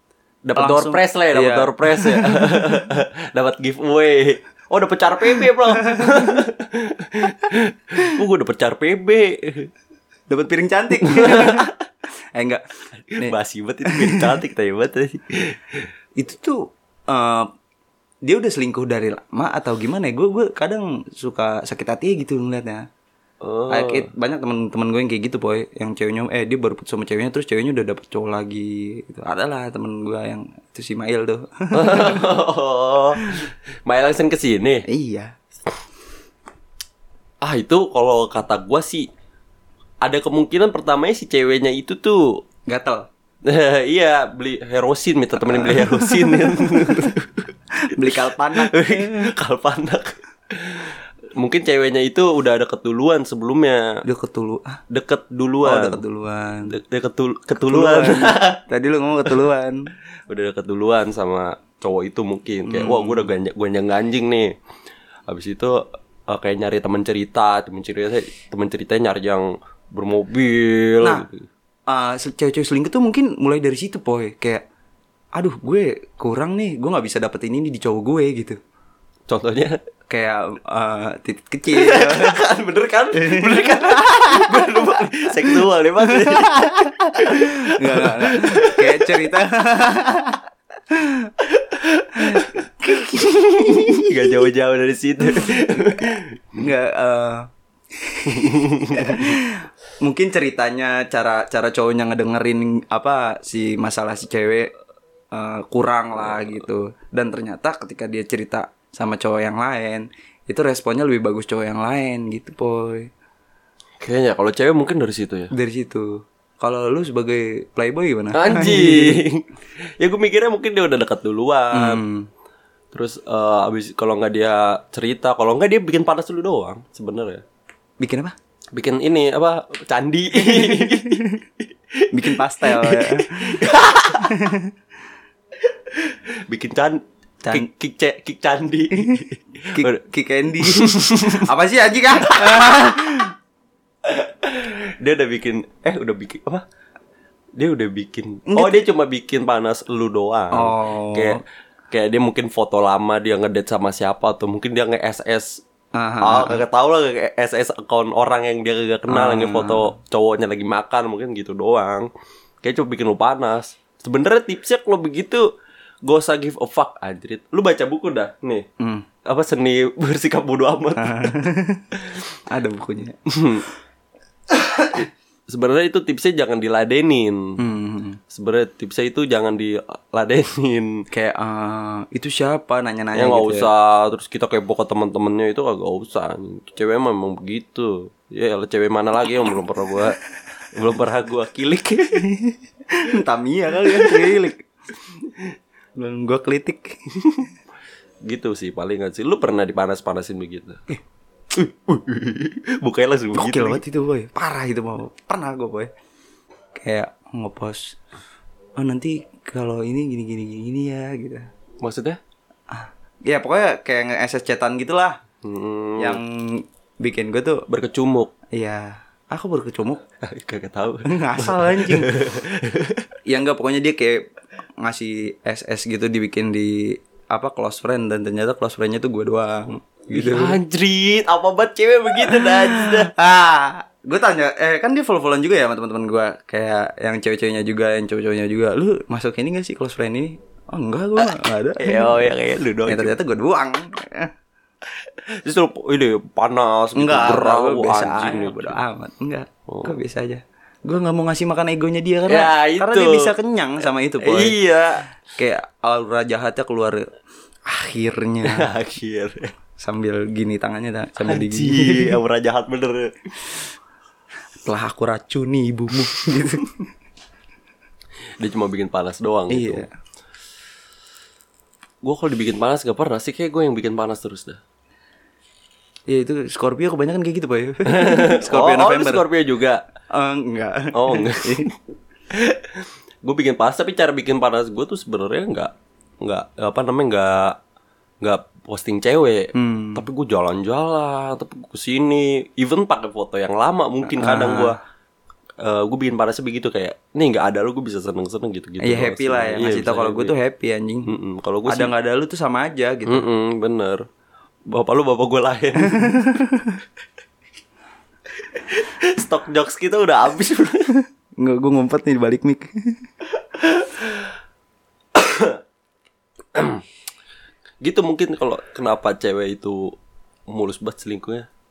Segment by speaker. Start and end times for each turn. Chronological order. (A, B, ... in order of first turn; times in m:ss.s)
0:00.4-0:09.7 A
0:00.6-0:02.9 B
0:05.4-0:06.4 B
0:10.3-0:11.7 B
0:11.0-0:11.7 A
0:12.3-0:12.6 B
0:13.0-0:15.9 A
0:13.2-0:14.4 B
0:16.2-0:17.5 B
0:18.2-0:22.9 B
0:23.4-0:24.1 A
0:23.7-0:32.2 B
0:31.7-0:34.9 A
0:33.2-0:33.4 B
0:34.9-0:35.3 B
0:37.4-0:39.1 A
0:40.0-0:42.4 A
0:42.7-0:43.1 B
0:43.4-0:54.0 A
0:45.4-0:47.1 B
0:47.8-0:49.2 B
0:54.0-0:54.8 B
0:54.9-0:56.0 A
0:55.6-0:56.8 B
0:56.7-0:58.6 A
0:57.6-0:59.9 B
1:00.3-1:04.5 A
1:02.6-1:03.3 B
1:05.3-1:11.5 A
1:11.0-1:11.3 B
1:11.9-1:14.6 B
1:15.3-1:18.6 B
1:19.3-1:19.8 A
1:20.1-1:22.4 B
1:21.7-1:29.3 A
1:23.1-1:31.3 B
1:31.4-1:36.4 A
1:32.2-1:34.4 B
1:35.2-1:36.0 B
1:36.6-1:44.7 B
1:38.2-1:39.4 A
1:45.3-1:53.1 B
1:54.0-1:55.5 A
1:55.5-1:59.2 B
1:58.3-1:59.4 A
2:00.0-2:02.0 A
2:01.7-2:02.3 B
2:02.9-2:07.4 A
2:08.0-2:08.3 B
2:08.7-2:11.4 A
2:10.3-2:11.4 B
2:11.9-2:14.3 A
2:12.1-2:14.7 B
2:15.9-2:20.0 A
2:17.4-2:17.7 B
2:19.0-2:23.3 B
2:20.6-2:21.5 A
2:22.2-2:22.7 A
2:24.0-2:26.6 A
2:27.6-2:35.6 A
2:28.5-2:28.8 B
2:30.5-2:31.4 B
2:35.9-2:36.6 B
2:36.2-2:42.1 A
2:39.1-2:39.9 B
2:42.6-2:45.5 A
2:46.0-2:48.6 A
2:48.8-2:49.0 B
2:49.2-2:51.4 A
2:51.0-2:51.8 B
2:52.5-2:53.2 B
2:53.3-2:53.7 A
2:54.9-2:57.6 A
2:57.6-2:58.2 B
2:58.3-3:01.0 A
3:01.1-3:03.7 B
3:03.1-3:10.2 A
3:10.7-3:12.2 A
3:12.1-3:14.6 B
3:13.9-3:14.4 A
3:16.0-3:17.0 B
3:18.2-3:20.8 A
3:21.5-3:23.8 A
3:23.3-3:25.9 B
3:26.7-3:28.0 B
3:28.8-3:31.5 B
3:31.8-3:32.2 A
3:32.7-3:35.2 B
3:35.4-3:36.2 A
3:36.0-3:37.6 B
3:37.7-3:38.3 A
3:38.5-3:40.0 B
3:40.2-3:43.0 A
3:41.1-3:42.1 B
3:43.2-3:44.3 B
3:44.8-3:50.6 B
3:50.1-3:53.1 A
3:52.2-4:04.3 B
4:01.2-4:03.1 A
4:05.0-4:08.8 A
4:07.0-4:14.6 B
4:09.7-4:09.9 A
4:12.3-4:13.3 A
4:14.2-4:15.0 A
4:15.3-4:17.1 B
4:17.6-4:18.7 B
4:18.4-4:19.5 A
4:19.8-4:22.2 B
4:21.2-4:23.2 A
4:24.6-4:26.8 B
4:28.4-4:29.8 A
4:29.5-4:29.9 B
4:32.0-4:34.6 A
4:36.1-4:39.2 B
4:37.8-4:39.8 A
4:40.1-4:41.7 B
4:40.9-4:41.7 A
4:42.3-4:47.6 A
4:48.2-4:54.8 A
4:49.5-4:50.0 B
4:54.0-4:54.8 B
4:55.6-5:00.3 A
4:58.8-5:01.1 B
5:01.0-5:01.9 A
5:01.7-5:03.3 B
5:03.1-5:04.0 A
5:04.7-5:06.2 A
5:05.9-5:06.8 B
5:08.4-5:10.9 A
5:11.4-5:13.0 B
5:13.6-5:14.3 A
5:15.1-5:15.6 A
5:16.5-5:16.8 A
5:17.8-5:19.9 A
5:20.5-5:21.5 A